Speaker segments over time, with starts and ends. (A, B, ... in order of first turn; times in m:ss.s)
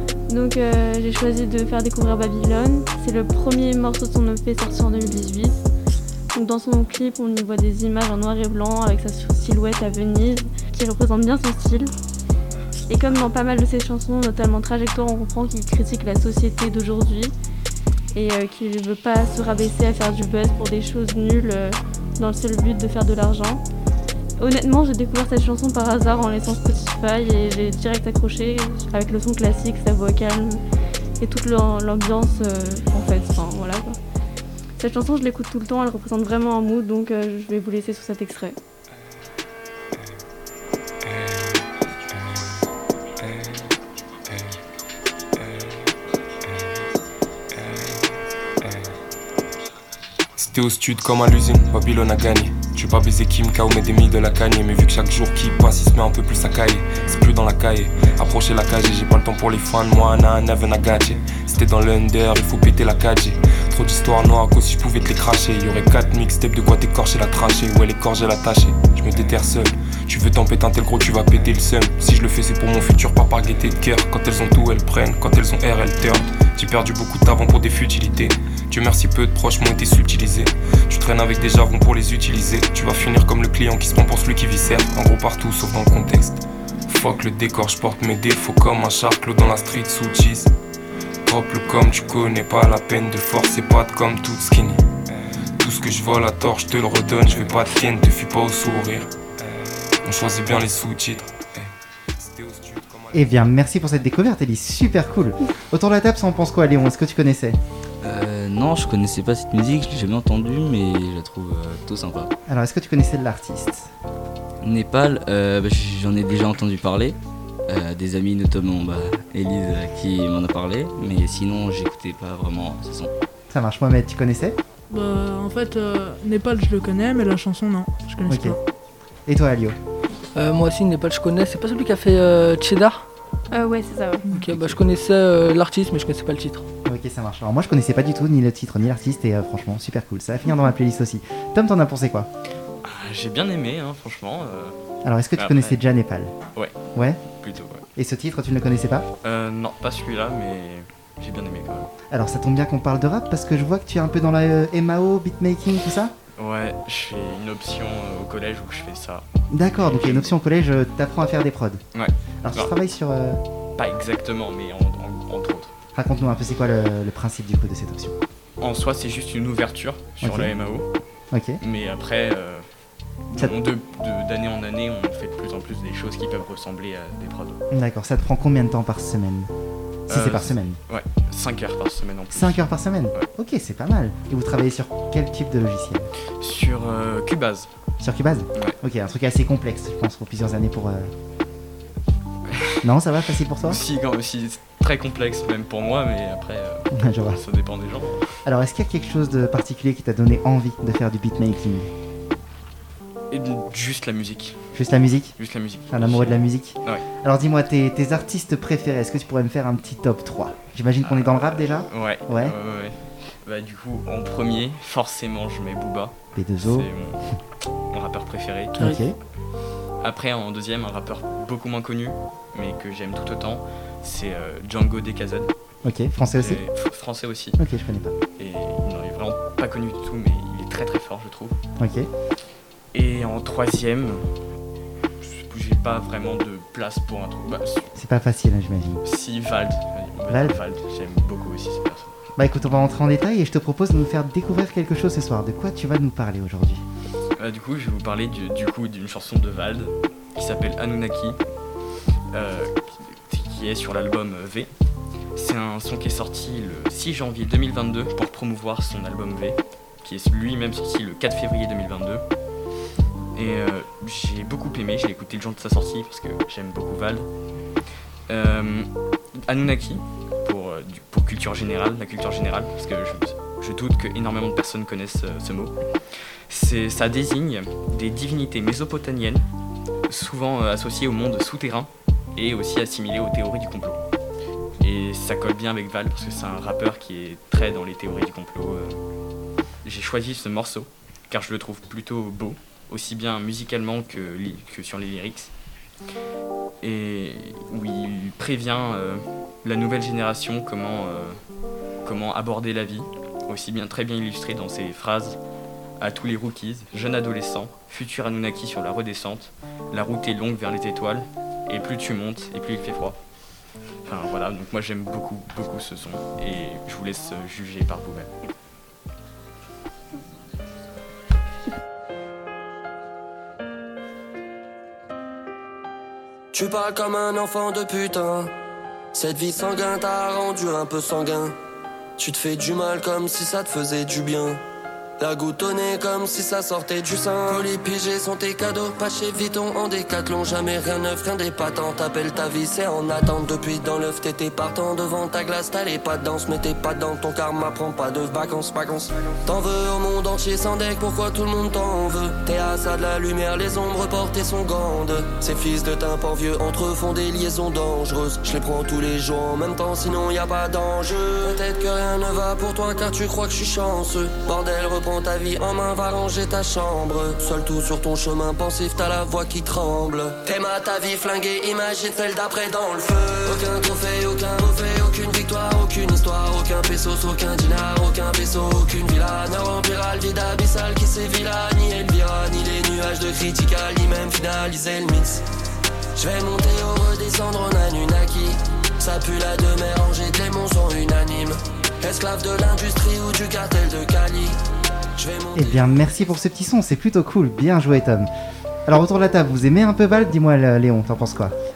0:00.3-0:05.6 A
0:06.3-0:11.9 A
0:12.9-0:17.3 A
0:18.1-0:23.6 A
0:24.4-0:30.6 A
0:31.2-0:34.0 A
0:34.8-0:38.6 A
0:41.1-0:41.4 B
0:42.2-0:42.5 B
0:43.2-0:43.7 B
0:45.4-0:45.7 B
0:47.6-0:48.0 B
0:48.6-0:48.9 B
0:50.4-1:30.5 B
1:31.2-1:43.2 B
1:43.1-1:47.6 C
1:48.0-1:52.3 D
1:52.5-1:53.9 C
1:54.6-2:03.1 D
2:03.5-2:04.6 C
2:04.9-2:08.6 E
2:08.3-2:08.6 C
2:09.3-2:09.8 C
2:10.3-2:13.0 F
2:13.5-2:14.2 A
2:14.3-2:16.6 F
2:14.5-2:14.8 D
2:16.8-2:22.3 C
2:22.8-2:24.7 G
2:25.0-2:26.3 C
2:25.4-2:25.8 G
2:26.9-2:27.2 C
2:27.4-2:27.8 G
2:28.0-2:29.0 C
2:29.2-2:31.9 G
2:32.1-2:36.1 C
2:36.4-2:39.2 G
2:39.5-2:41.8 C
2:39.8-2:40.4 G
2:41.9-2:42.7 G
2:42.4-2:43.4 C
2:43.8-2:45.7 G
2:45.9-2:48.2 C
2:48.6-2:50.8 G
2:50.2-2:50.5 C
2:51.3-2:51.6 C
2:51.6-2:52.7 G
2:53.3-2:57.6 G
2:57.7-2:59.5 C
3:00.1-3:03.3 G
3:00.1-3:00.8 C
3:02.3-3:06.1 C
3:06.4-3:07.7 G
3:08.0-3:11.1 C
3:12.5-3:12.8 G
3:12.8-3:13.8 C
3:13.6-3:18.3 G
3:16.9-3:17.4 C
3:18.4-3:21.9 C
3:23.3-3:24.6 G
3:24.7-3:25.3 C
3:25.4-3:27.0 G
3:25.9-3:32.6 C
3:31.0-3:37.4 G
3:36.4-3:36.9 C
3:37.9-3:39.0 G
3:38.8-3:39.0 F
3:38.8-3:39.1 C
3:40.0-3:45.5 G
3:45.8-3:46.6 C
3:46.3-3:47.6 G
3:47.6-3:48.1 C
3:48.4-3:51.6 G
3:51.8-3:52.1 C
3:52.9-3:54.2 G
3:55.2-3:57.9 G
3:57.9-3:59.0 C
3:59.0-4:02.2 G
4:00.3-4:00.6 C
4:02.4-4:06.8 C
4:07.4-4:11.4 G
4:12.3-4:14.7 G
4:15.3-4:22.2 G
4:23.3-4:27.3 G
4:28.3-4:39.4 G
4:40.1-4:44.0 G
4:44.8-4:49.0 G
4:49.8-4:55.5 G
4:56.8-5:01.4 G
5:02.0-5:05.4 G
5:06.0-5:13.2 G
5:14.0-5:18.3 G
5:26.5-5:28.5 H
5:29.1-5:31.5 H
5:32.2-5:34.6 H
5:35.2-6:25.4 H
6:26.2-6:34.6 H
6:35.2-6:36.3 H
6:35.6-6:38.3 C
6:38.9-6:41.5 C